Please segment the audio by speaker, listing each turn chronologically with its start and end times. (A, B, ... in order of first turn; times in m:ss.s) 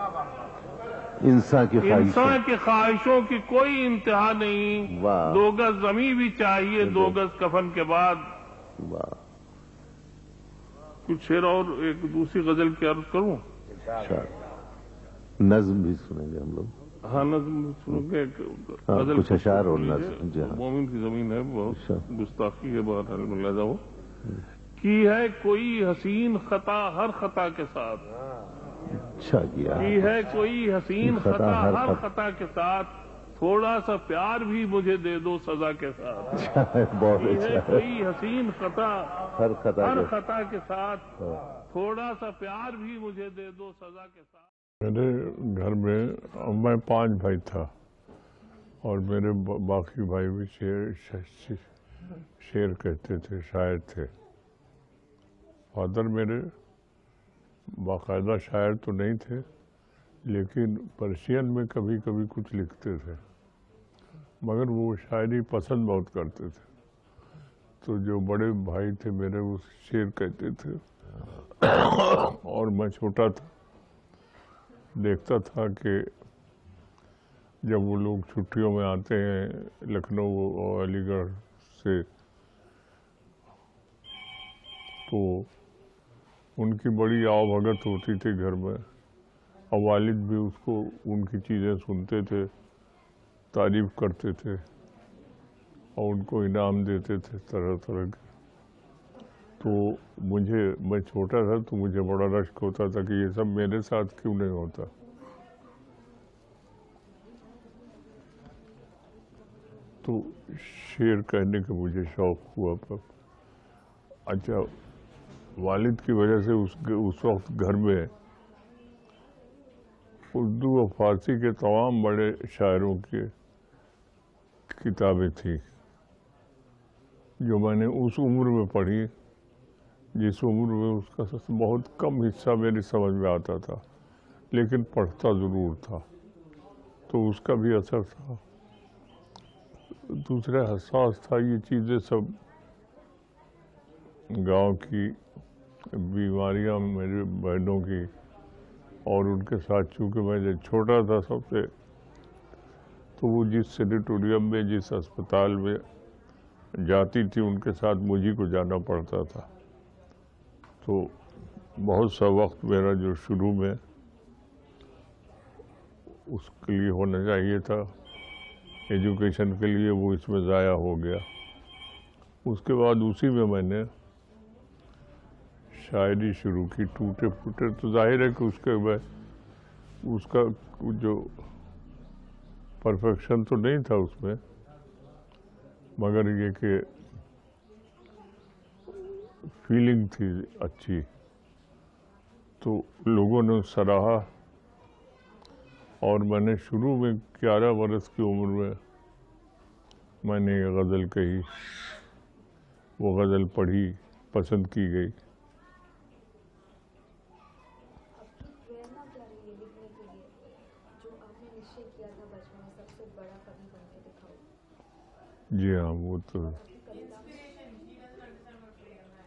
0:01.2-0:02.4 A
0:01.8-0:08.2 B
0:04.8-0:05.4 A
0:06.8-0:07.2 A
0:08.8-0:09.2 A
0:11.0-0:13.4 B
0:13.7-0:14.3 A
0:15.4-0:16.7 A
0:17.0-0:23.8 B
0:18.9-0:20.6 A
0:21.7-0:22.0 A
0:24.8-0:28.0 B
0:28.9-0:30.2 A
0:29.7-0:36.4 B
0:31.0-0:32.0 A
0:36.3-0:37.8 A
0:37.1-0:41.1 B
0:39.4-0:40.1 A
0:41.7-0:44.5 B
0:44.8-0:47.7 C
0:48.8-0:51.6 C
0:52.4-0:54.1 C
0:55.7-0:56.5 C
0:57.7-0:59.5 C
1:00.2-1:03.2 C
1:04.4-1:06.6 C
1:07.8-1:10.8 C
1:11.5-1:13.5 C
1:14.9-1:16.1 C
1:17.6-1:22.1 C
1:25.1-1:25.5 C
1:26.6-1:28.8 C
1:29.7-1:32.5 C
1:33.5-1:34.6 C
1:36.0-1:38.2 C
1:39.6-1:44.9 C
1:50.0-1:53.1 C
1:54.3-1:54.7 C
1:55.6-1:58.1 C
2:00.3-2:03.3 C
2:04.7-2:05.6 C
2:07.4-2:09.1 C
2:10.1-2:13.8 C
2:14.5-2:16.0 C
2:17.1-2:18.4 C
2:20.0-2:22.4 C
2:24.3-2:25.2 C
2:25.9-2:28.1 C
2:29.0-2:31.7 C
2:33.2-2:35.8 C
2:36.7-2:39.5 C
2:40.8-2:41.2 C
2:41.7-2:43.8 C
2:46.2-2:47.9 C
2:48.9-2:51.2 C
2:52.4-2:53.9 C
2:55.7-2:59.0 C
3:00.0-3:01.4 C
3:02.8-3:04.4 C
3:06.0-3:06.9 C
3:08.9-3:11.1 C
3:12.6-3:14.3 C
3:16.0-3:18.8 C
3:20.2-3:22.0 C
3:23.0-3:25.1 C
3:28.1-3:34.4 D
3:35.5-3:36.6 C
3:36.4-3:38.3 D